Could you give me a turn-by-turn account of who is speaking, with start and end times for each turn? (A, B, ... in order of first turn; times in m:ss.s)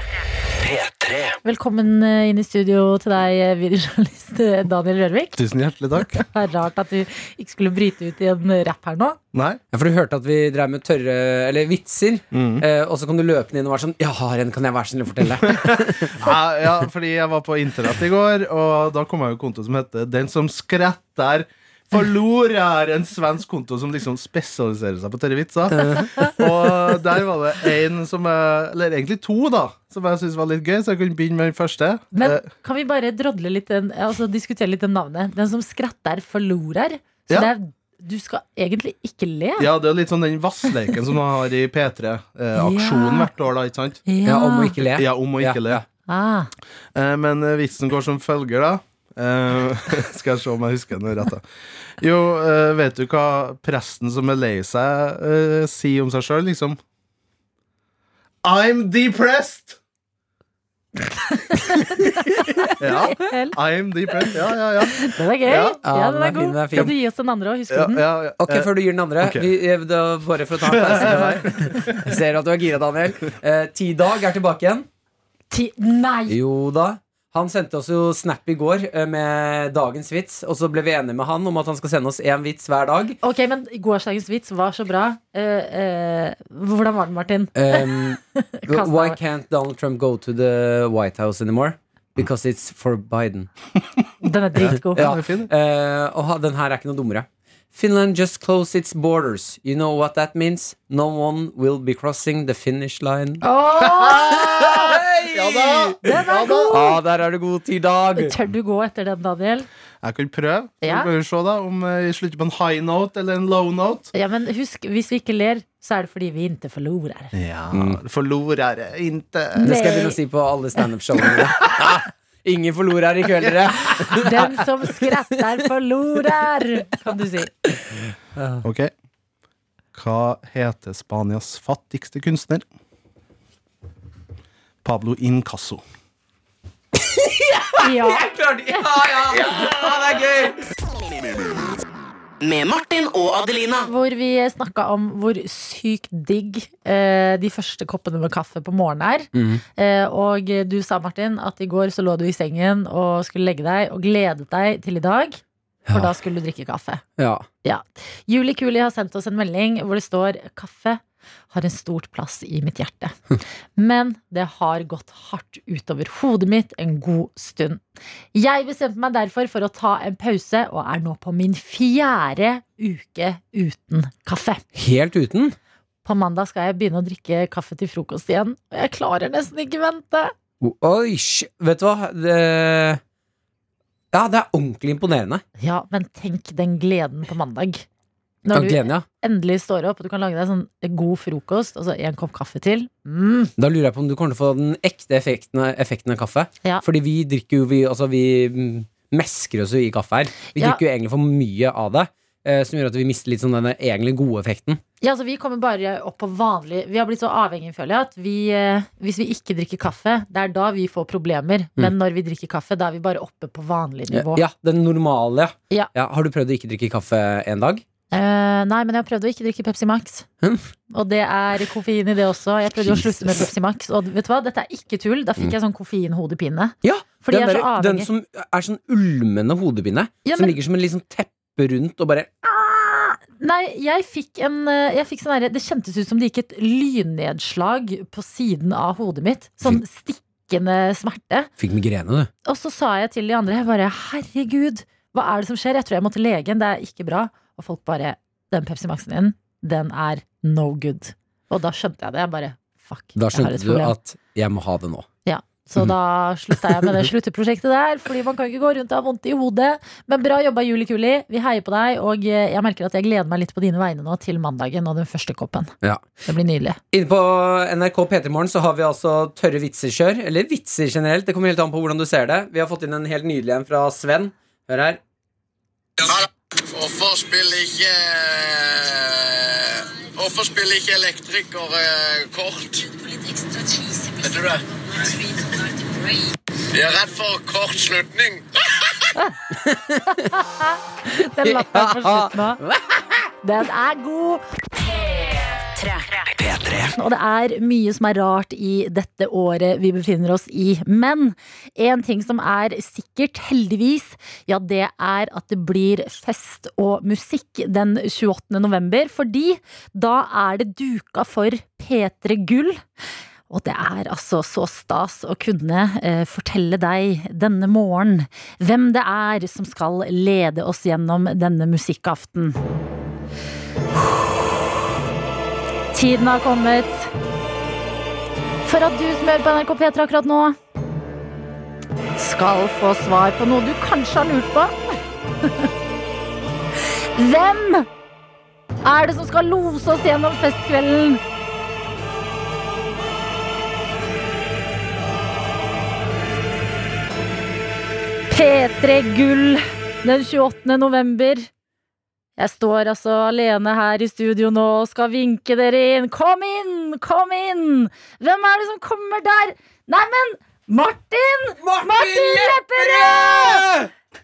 0:00.6-0:01.4 A
0:01.4-0:05.4 B
0:05.4-0:06.3 C
0:06.1-0:09.2 B
0:09.3-0:09.6 C
0:09.7-0:16.3 D
0:12.3-0:12.6 C
0:15.5-0:32.5 C
0:25.7-0:26.5 D
0:32.2-0:39.7 B
0:39.6-0:44.0 C
0:42.6-0:43.3 B
0:44.1-0:44.8 B
0:44.2-0:45.8 D
0:45.0-0:45.8 C
0:46.1-0:46.5 B
0:47.0-0:51.4 C
0:52.0-0:56.8 C
0:58.4-0:59.8 C
1:01.5-1:03.6 B
1:02.8-1:05.8 C
1:04.9-1:08.0 B
1:05.8-1:06.9 D
1:07.7-1:09.5 C
1:08.4-1:14.9 D
1:10.7-1:12.0 C
1:15.5-1:16.4 B
1:16.3-1:23.2 D
1:23.2-1:29.2 B
1:27.6-1:33.5 D
1:34.2-1:35.1 B
1:34.6-1:35.5 C
1:34.7-1:43.4 D
1:43.4-1:45.0 B
1:43.9-1:46.9 C
1:44.2-1:46.0 D
1:46.0-1:46.9 B
1:46.7-1:48.4 D
1:48.2-1:49.7 B
1:50.0-1:54.1 C
1:50.8-1:51.1 B
1:54.1-1:57.3 B
1:57.3-2:00.0 C
1:57.7-1:58.0 D
1:59.6-2:00.2 B
1:59.6-2:05.1 D
2:04.0-2:07.5 B
2:08.6-2:08.9 C
2:10.0-2:12.6 C
2:14.8-2:15.8 C
2:17.0-2:20.6 D
2:17.8-2:18.8 B
2:22.4-2:23.8 A
2:23.8-2:37.0 B
2:29.3-2:29.6 D
2:35.9-2:36.1 D
2:37.2-2:37.5 D
2:37.6-2:43.2 B
2:43.8-2:47.8 B
2:48.3-2:54.6 B
2:54.7-2:55.6 D
2:56.0-3:00.3 B
3:00.6-3:03.0 D
3:04.1-3:05.4 D
3:05.6-3:07.8 B
3:08.4-3:13.5 B
3:08.5-3:09.1 D
3:13.6-3:24.8 D
3:20.6-3:20.8 B
3:25.0-3:34.4 B
3:34.1-3:37.8 D
3:38.1-3:40.3 B
3:40.4-3:40.7 D
3:40.9-3:48.1 B
3:42.8-3:43.4 D
3:46.8-3:52.6 D
3:50.2-3:50.6 B
3:52.7-4:01.5 B
4:01.6-4:02.3 D
4:02.5-4:13.9 B
4:13.2-4:15.1 D
4:15.3-4:25.7 B
4:16.8-4:17.1 D
4:26.3-4:26.8 B
4:26.9-4:35.0 D
4:36.0-4:43.0 E
4:44.2-4:45.4 E
4:46.7-4:49.0 E
4:49.5-4:50.3 D
4:50.1-4:52.6 B
4:51.4-4:53.3 D
4:53.4-4:54.4 B
4:56.1-4:56.9 A
4:56.9-5:12.8 B
5:13.5-5:22.6 B
5:24.0-5:24.4 B
5:25.9-5:27.1 B
5:28.6-5:30.6 B
5:32.2-5:34.8 B
5:35.4-5:35.7 B
5:37.2-5:37.9 B
5:38.8-5:41.2 B
5:48.3-5:51.5 B
5:52.4-6:03.7 B
6:01.6-6:03.9 D